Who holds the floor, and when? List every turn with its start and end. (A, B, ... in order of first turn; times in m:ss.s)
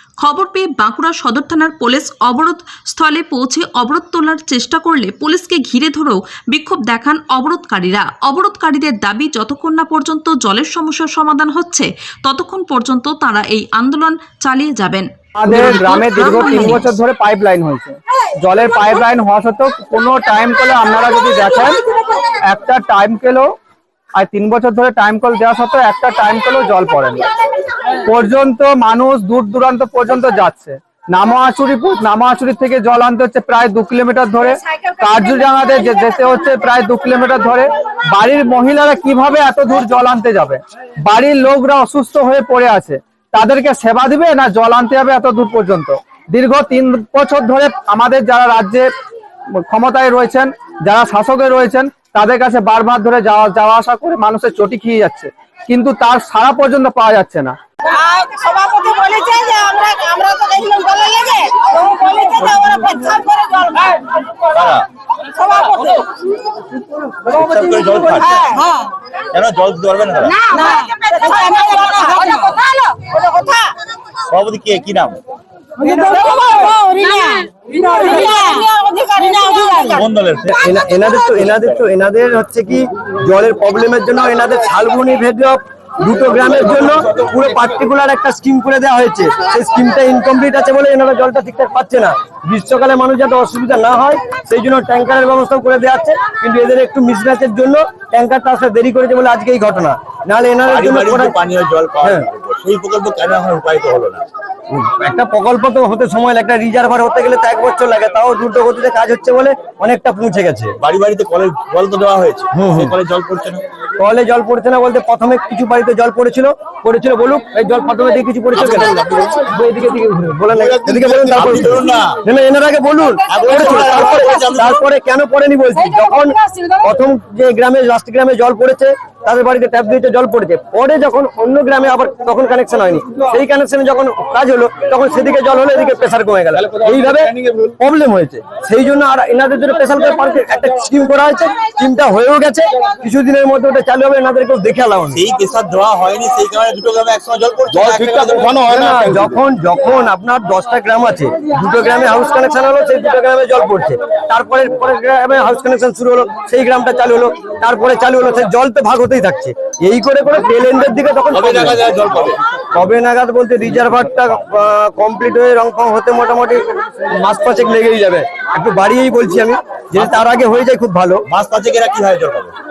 0:00.2-0:16.9 A
0:15.4-0:21.8 B
0:22.4-0:23.5 B
0:24.1-0:27.3 B
0:28.0-0:48.9 B
0:49.6-0:57.6 B
0:57.9-1:04.2 C
1:04.5-1:04.9 D
1:05.3-1:06.0 C
1:07.2-1:08.6 D
1:08.4-1:08.7 C
1:09.3-1:10.5 D
1:10.4-1:13.7 C
1:14.3-1:15.2 D
1:15.8-1:20.0 C
1:19.8-1:20.7 D
1:20.4-1:41.3 E
1:40.6-1:44.2 D
1:42.0-1:42.3 E
1:44.7-1:50.7 E
1:50.8-1:53.6 D
1:52.5-1:53.0 E
1:54.0-2:25.2 E
1:58.5-1:59.5 D
2:00.5-2:02.2 D
2:03.3-2:04.8 D
2:25.1-2:29.2 D
2:27.7-2:41.8 E
2:41.3-2:42.4 D
2:42.7-2:51.2 E
2:49.9-2:50.2 D
2:51.3-2:52.5 D